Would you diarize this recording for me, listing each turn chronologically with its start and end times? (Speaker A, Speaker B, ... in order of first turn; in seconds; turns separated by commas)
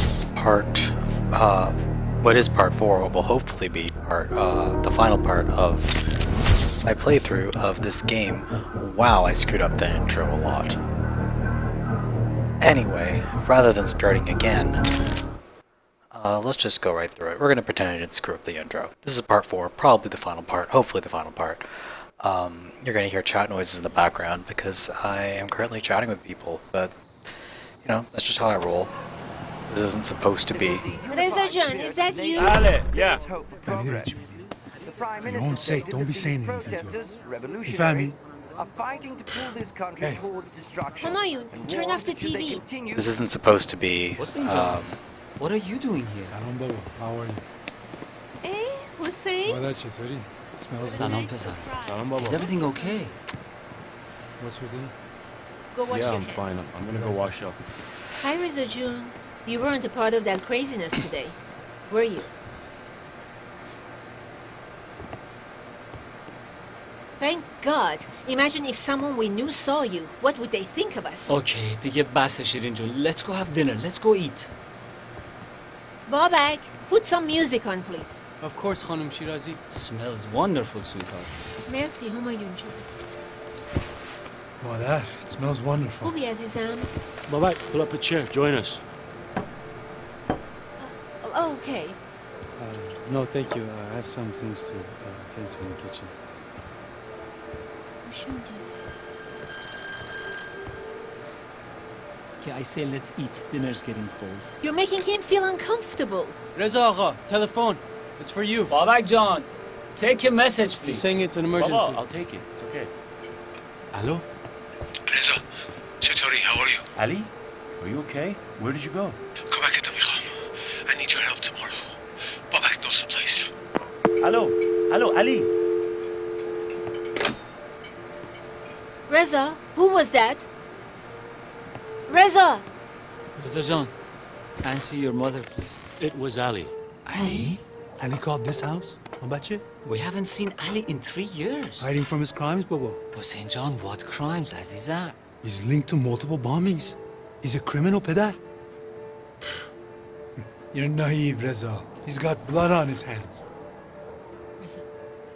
Speaker A: 0.3-6.0, Speaker A: 6.8-10.8, Speaker A: 12.6-14.8, Speaker A: 16.1-28.9, Speaker A: 29.7-30.9, Speaker B: 31.1-32.8, Speaker C: 32.4-33.2, Speaker D: 33.6-34.5, Speaker D: 35.2-37.0, Speaker D: 37.6-38.2, Speaker B: 41.0-42.6, Speaker A: 42.9-45.0, Speaker E: 44.2-44.8, Speaker E: 45.4-46.3, Speaker D: 46.2-47.4, Speaker B: 48.4-49.6, Speaker D: 49.4-51.2, Speaker B: 50.8-53.0, Speaker E: 50.9-53.2, Speaker F: 51.8-52.5, Speaker D: 54.4-54.9, Speaker B: 55.7-56.6, Speaker F: 55.9-57.6, Speaker B: 58.2-61.4, Speaker B: 61.9-62.3, Speaker B: 67.2-71.4, Speaker E: 71.3-74.5, Speaker B: 76.1-78.2, Speaker G: 78.4-79.6, Speaker E: 79.7-81.3, Speaker B: 81.7-82.8, Speaker D: 84.6-86.1, Speaker B: 86.0-86.9, Speaker F: 87.3-88.8, Speaker B: 90.8-92.0, Speaker G: 92.6-96.1, Speaker B: 98.0-98.9, Speaker E: 102.4-104.5, Speaker B: 104.6-106.3, Speaker G: 106.5-108.7, Speaker E: 108.7-111.1, Speaker G: 110.8-112.0, Speaker F: 111.5-112.9, Speaker F: 113.9-114.2, Speaker C: 115.1-115.4, Speaker C: 116.0-116.8, Speaker F: 117.0-119.2, Speaker C: 119.5-120.3, Speaker C: 120.9-121.9, Speaker C: 122.5-123.5, Speaker F: 124.2-125.5, Speaker B: 129.1-130.4, Speaker B: 132.1-132.6, Speaker E: 133.4-133.9, Speaker E: 134.6-135.8, Speaker F: 136.0-136.7, Speaker E: 137.1-137.6, Speaker D: 138.0-139.6, Speaker E: 139.8-141.9, Speaker D: 141.8-143.0, Speaker E: 143.1-145.1, Speaker D: 145.4-148.4, Speaker D: 150.4-153.4